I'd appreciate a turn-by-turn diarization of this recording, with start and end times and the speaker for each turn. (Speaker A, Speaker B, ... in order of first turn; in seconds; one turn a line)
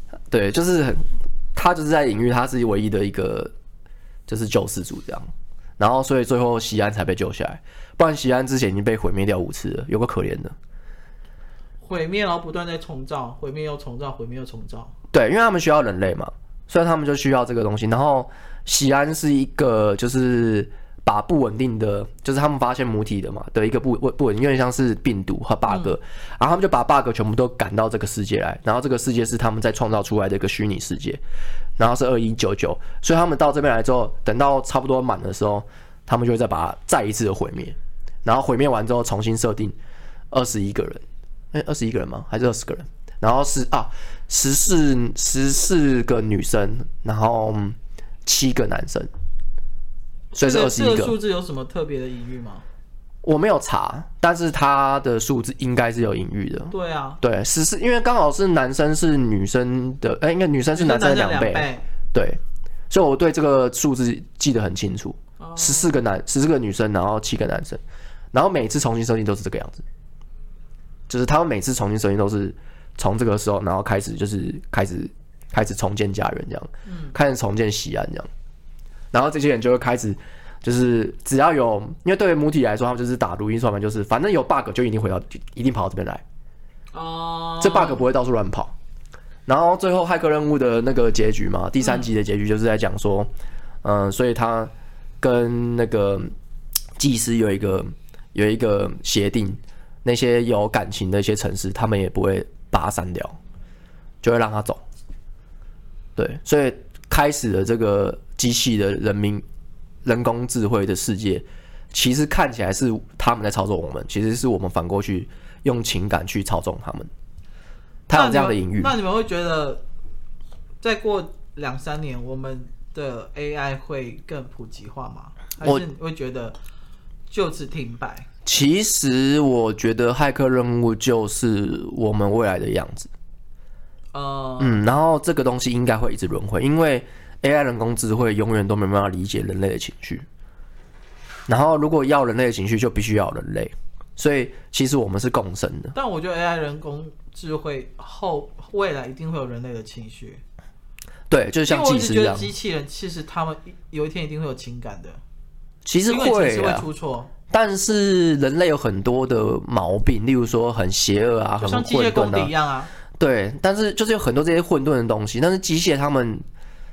Speaker A: 0.3-3.5
Speaker A: 4.3-10.5
Speaker B: 11.8-14.9
Speaker A: 15.1-31.2
Speaker B: 25.7-25.9
Speaker A: 31.8-39.8
Speaker A: 40.3-49.1
Speaker A: 50.3-51.2
Speaker B: 50.4-52.6
Speaker A: 53.2-67.8
Speaker B: 56.7-57.2
Speaker B: 60.8-61.8
Speaker B: 65.4-66.0
Speaker A: 68.3-69.8
Speaker A: 71.1-78.3
Speaker B: 76.8-77.1
Speaker A: 79.1-86.2
Speaker B: 86.9-88.0
Speaker A: 87.6-88.7
Speaker A: 89.5-93.3
Speaker B: 91.8-92.1
Speaker A: 93.8-96.3
Speaker A: 97.0-103.4
Speaker A: 104.2-104.8
Speaker A: 106.2-109.4
Speaker A: 110.0-117.1
Speaker A: 118.1-118.9
Speaker B: 118.1-119.8
Speaker B: 120.8-126.6
Speaker B: 127.3-128.2
Speaker A: 128.4-133.1
Speaker B: 134.1-134.8
Speaker A: 134.6-140.2
Speaker A: 141.5-145.9
Speaker B: 145.9-150.4
Speaker A: 151.3-152.5
Speaker B: 151.7-155.2
Speaker A: 155.8-156.8
Speaker B: 156.1-157.3
Speaker A: 157.5-162.5
Speaker B: 161.6-162.9
Speaker A: 163.2-166.4